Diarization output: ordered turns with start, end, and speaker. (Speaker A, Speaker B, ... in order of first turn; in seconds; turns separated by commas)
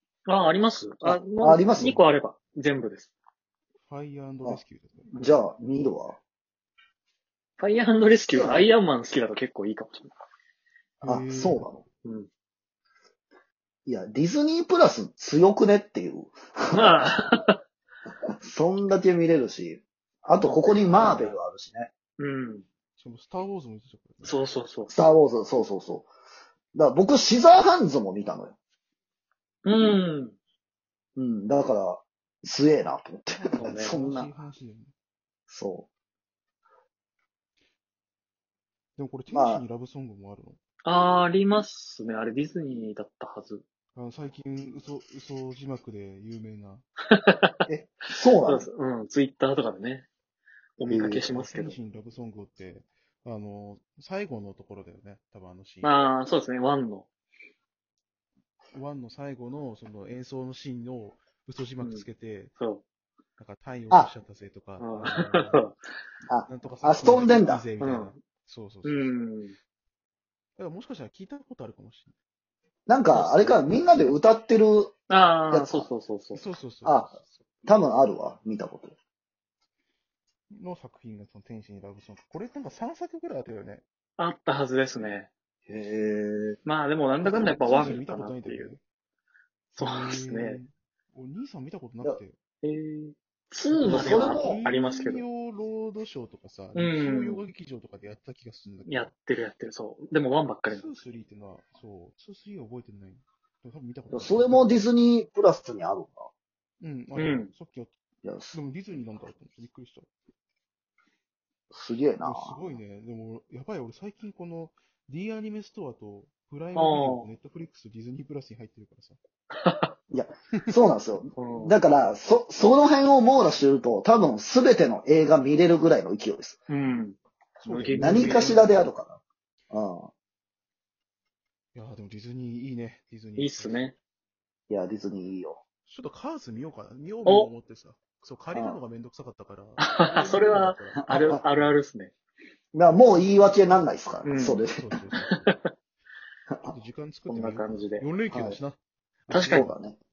Speaker A: 0.3-3.1, Speaker B: 1.0-2.0, Speaker C: 1.8-2.0, Speaker C: 3.8-5.1, Speaker B: 5.1-6.2, Speaker A: 7.6-10.1, Speaker B: 8.3-8.7, Speaker C: 11.0-11.7, Speaker B: 11.1-11.8, Speaker B: 13.9-17.1, Speaker A: 16.7-17.6, Speaker B: 18.4-21.9, Speaker A: 20.4-21.4, Speaker A: 22.2-22.7, Speaker C: 23.0-24.4, Speaker A: 24.2-24.9, Speaker B: 24.9-26.1, Speaker B: 26.7-28.5, Speaker A: 29.6-30.4, Speaker B: 31.2-34.3, Speaker C: 33.3-34.9, Speaker A: 33.6-33.9, Speaker B: 35.5-35.9, Speaker C: 39.0-40.6, Speaker B: 39.3-39.6, Speaker A: 40.9-43.6, Speaker C: 44.0-46.9, Speaker A: 47.1-47.5, Speaker B: 47.7-48.7, Speaker A: 48.5-50.1, Speaker A: 50.8-51.8, Speaker B: 50.9-51.2, Speaker C: 51.3-55.9, Speaker A: 55.8-57.1, Speaker C: 58.7-62.5, Speaker A: 61.8-62.1, Speaker A: 62.6-62.8, Speaker C: 63.4-65.7, Speaker A: 64.8-65.7, Speaker B: 66.3-67.7, Speaker C: 66.5-69.1, Speaker A: 67.8-68.2, Speaker A: 68.8-69.6, Speaker C: 70.6-72.1, Speaker B: 72.9-74.9, Speaker C: 73.1-73.8, Speaker A: 75.1-76.4, Speaker B: 75.5-75.9, Speaker C: 76.3-77.4, Speaker B: 76.8-77.1, Speaker B: 77.7-79.0, Speaker C: 80.5-83.8, Speaker A: 84.2-85.3, Speaker B: 85.7-86.6, Speaker A: 86.7-88.7, Speaker C: 87.2-88.8, Speaker C: 89.7-92.4, Speaker A: 89.8-90.6, Speaker A: 92.6-95.2, Speaker C: 93.7-99.1, Speaker B: 93.9-94.6, Speaker A: 96.8-97.4, Speaker A: 98.9-100.9, Speaker C: 100.7-104.7, Speaker B: 104.1-106.3, Speaker C: 106.8-107.9, Speaker A: 107.2-107.5, Speaker B: 108.2-108.6, Speaker C: 108.5-110.1, Speaker B: 111.7-112.8, Speaker C: 112.2-119.2, Speaker A: 116.8-117.3, Speaker A: 119.6-119.9, Speaker B: 120.1-126.6, Speaker A: 121.4-121.8, Speaker A: 126.7-128.6, Speaker C: 127.6-128.8, Speaker B: 127.9-130.1, Speaker C: 131.7-133.9, Speaker A: 133.4-133.9, Speaker B: 134.7-135.6, Speaker C: 135.9-141.8, Speaker A: 139.8-142.1, Speaker B: 140.9-141.4, Speaker B: 142.7-144.8, Speaker C: 143.1-143.9, Speaker A: 144.2-144.6, Speaker C: 144.6-145.5, Speaker A: 145.3-145.7, Speaker C: 146.6-149.8, Speaker A: 147.3-148.1, Speaker B: 148.3-148.6, Speaker A: 149.3-149.7, Speaker B: 149.5-150.0